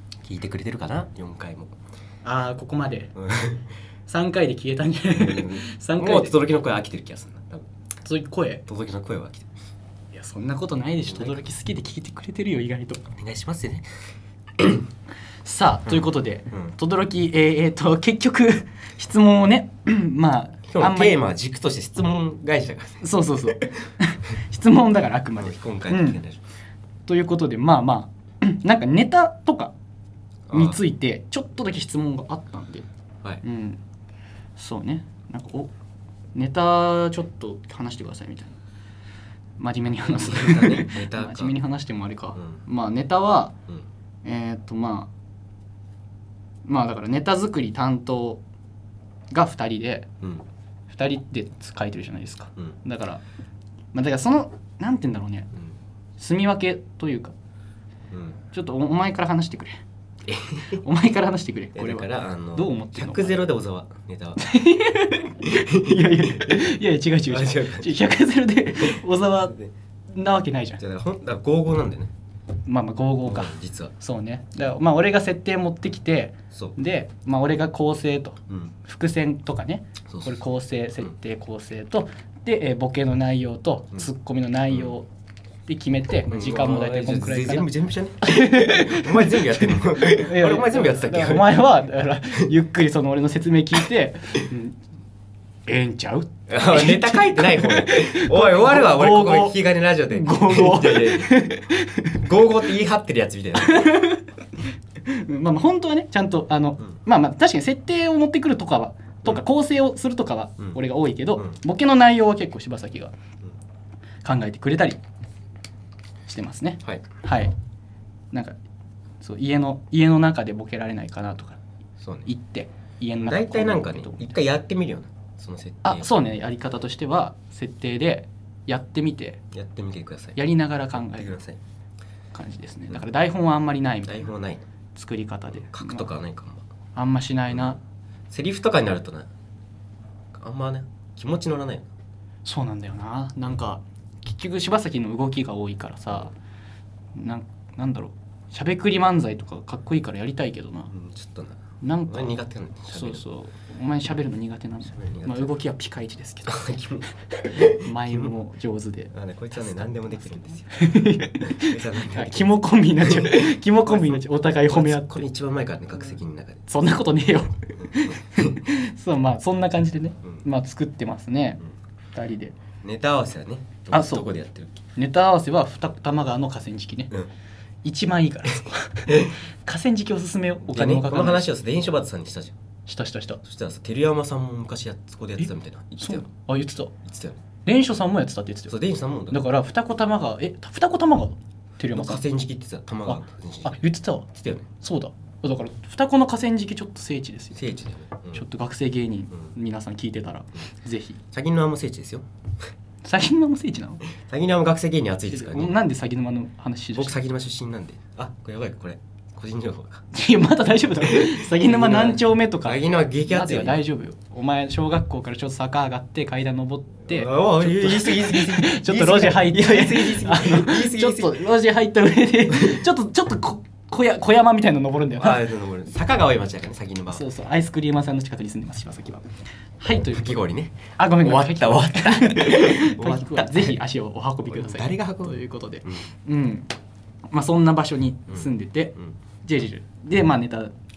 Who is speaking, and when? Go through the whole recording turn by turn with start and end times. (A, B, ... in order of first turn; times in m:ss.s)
0:00.3-0:01.7 A
0:02.2-0:03.1 B
0:03.2-0:03.6 A
0:04.1-0:06.3 B
0:05.1-0:07.7 A
0:08.0-0:08.6 B
0:08.6-0:09.5 A
0:10.1-0:13.1 B
0:11.1-0:11.4 A
0:13.1-0:13.9 A
0:14.6-0:14.8 A
0:15.4-0:21.2 B
0:15.9-0:16.7 A
0:20.7-0:23.6 A
0:23.0-0:26.2 B
0:25.4-0:26.4 A
0:27.1-0:29.7 B
0:30.5-0:30.8 A
0:30.5-0:32.9 B
0:33.4-0:33.8 B
0:34.6-0:35.7 B
0:36.3-0:38.6 B
0:39.6-0:43.5 B
0:40.2-0:41.6 A
0:42.4-0:42.6 A
0:44.2-0:45.1 B
0:46.6-0:48.4 B
0:49.3-0:50.1 B
0:50.9-0:53.2 B
0:53.9-0:55.5 B
0:56.2-0:57.3 B
0:58.1-0:58.4 A
0:58.5-0:59.7 B
1:00.2-1:00.8 A
1:00.8-1:03.4 B
1:01.7-1:04.4 A
1:04.4-1:09.5 B
1:05.4-1:08.1 A
1:08.8-1:09.7 A
1:10.1-1:10.8 B
1:10.8-1:12.1 A
1:12.6-1:25.1 B
1:13.2-1:13.9 A
1:18.5-1:18.7 A
1:20.1-1:20.4 A
1:25.7-1:27.7 B
1:26.3-1:31.7 A
1:28.2-1:34.8 B
1:35.7-1:42.2 B
1:36.5-1:41.4 A
1:42.2-1:43.9 A
1:43.6-1:44.3 B
1:45.0-1:53.1 B
1:54.2-1:55.0 B
1:56.3-1:57.5 B
1:58.3-1:58.6 B
1:59.2-2:01.6 B
2:02.0-2:02.3 A
2:02.2-2:04.3 B
2:03.2-2:06.1 A
2:05.8-2:09.4 B
2:09.5-2:10.4 A
2:10.4-2:11.3 B
2:10.9-2:11.6 A
2:12.3-2:14.3 B
2:14.0-2:14.6 A
2:14.9-2:16.0 B
2:15.6-2:16.6 A
2:16.9-2:17.8 B
2:17.5-2:17.8 A
2:18.3-2:19.3 A
2:20.3-2:21.9 A
2:22.4-2:26.3 B
2:27.1-2:30.9 B
2:30.9-2:33.3 A
2:31.8-2:36.7 B
2:34.9-2:35.5 A
2:36.4-2:38.3 A
2:37.5-2:45.2 B
2:39.1-2:46.7 A
2:46.7-2:51.6 B
2:52.1-2:52.6 B
2:52.8-2:54.8 A
2:53.9-2:54.3 B
2:55.0-2:57.1 B
2:57.8-3:01.5 B
2:59.1-2:59.3 A
3:00.6-3:02.6 A
3:02.9-3:03.4 B
3:03.4-3:06.2 A
3:05.4-3:06.9 B
3:07.0-3:07.4 A
3:07.6-3:08.7 B
3:08.7-3:09.5 A
3:09.3-3:12.2 B
3:11.9-3:14.7 A
3:13.1-3:14.2 B
3:14.8-3:17.6 B
3:17.5-3:18.4 A
3:18.3-3:21.2 B
3:21.3-3:22.2 A
3:23.0-3:24.0 B
3:24.1-3:25.8 A
3:25.3-3:27.1 B
3:26.9-3:30.0 A
3:30.1-3:45.5 B
3:31.0-3:33.8 A
3:37.1-3:41.4 A
3:42.5-3:42.8 A
3:45.2-3:47.2 A
3:47.1-3:50.4 B
3:50.0-3:53.8 A
3:51.0-3:56.7 B
3:54.4-3:56.1 A
3:57.3-4:00.7 B
3:58.3-3:59.1 A